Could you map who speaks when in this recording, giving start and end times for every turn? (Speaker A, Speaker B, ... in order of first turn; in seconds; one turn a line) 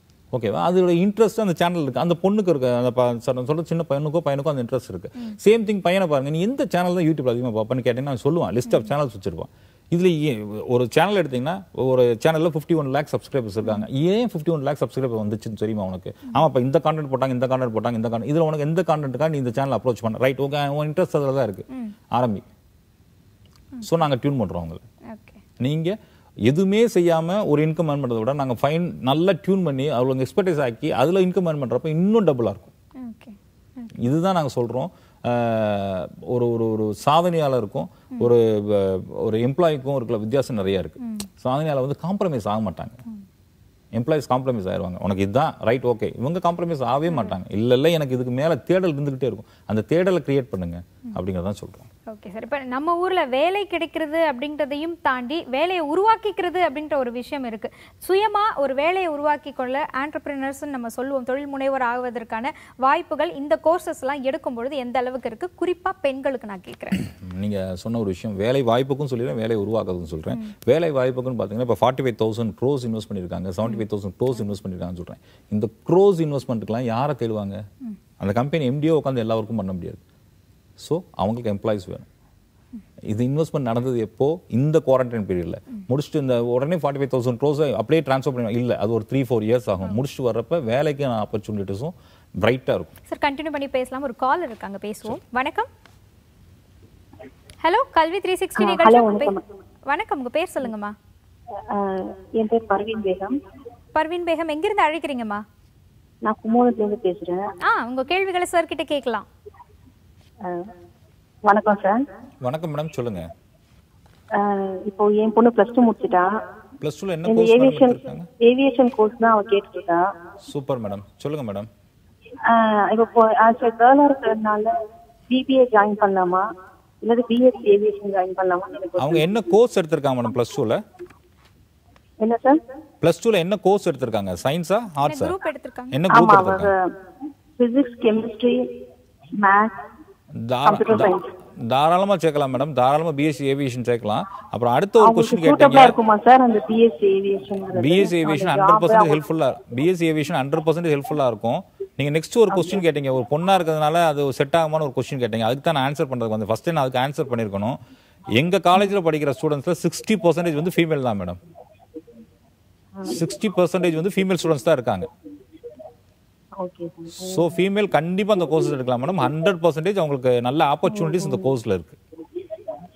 Speaker A: 0.3-22.4
Speaker A: 23.8-24.8
Speaker B: 25.1-25.4
Speaker A: 25.6-32.7
Speaker B: 33.0-34.0
Speaker A: 34.0-43.0
Speaker B: 41.0-41.3
Speaker A: 43.9-51.9
Speaker B: 52.1-67.0
Speaker A: 67.1-77.7
Speaker A: 78.2-80.0
Speaker A: 80.8-82.1
Speaker A: 83.1-92.9
Speaker B: 93.1-95.7
Speaker B: 97.6-99.3
Speaker C: 98.6-99.4
Speaker B: 99.9-100.9
Speaker C: 101.7-103.4
Speaker B: 104.0-105.4
Speaker C: 106.2-107.5
Speaker B: 107.6-109.3
Speaker C: 110.4-110.7
Speaker C: 111.5-112.0
Speaker A: 112.4-113.3
Speaker C: 114.3-116.3
Speaker A: 116.8-118.3
Speaker C: 117.2-120.1
Speaker A: 120.4-121.7
Speaker C: 122.5-124.8
Speaker C: 125.3-126.5
Speaker C: 127.0-129.3
Speaker A: 129.0-130.8
Speaker C: 132.2-132.6
Speaker A: 133.0-135.3
Speaker B: 135.1-136.0
Speaker A: 135.9-136.7
Speaker C: 136.1-136.9
Speaker C: 137.6-138.7
Speaker C: 139.3-139.8
Speaker A: 140.3-146.0
Speaker C: 140.7-141.3
Speaker C: 145.0-149.2
Speaker A: 147.7-157.8
Speaker A: 158.3-161.4
Speaker C: 163.0-163.2
Speaker A: 163.1-165.1
Speaker C: 166.6-167.5
Speaker A: 167.2-172.0
Speaker C: 170.9-171.5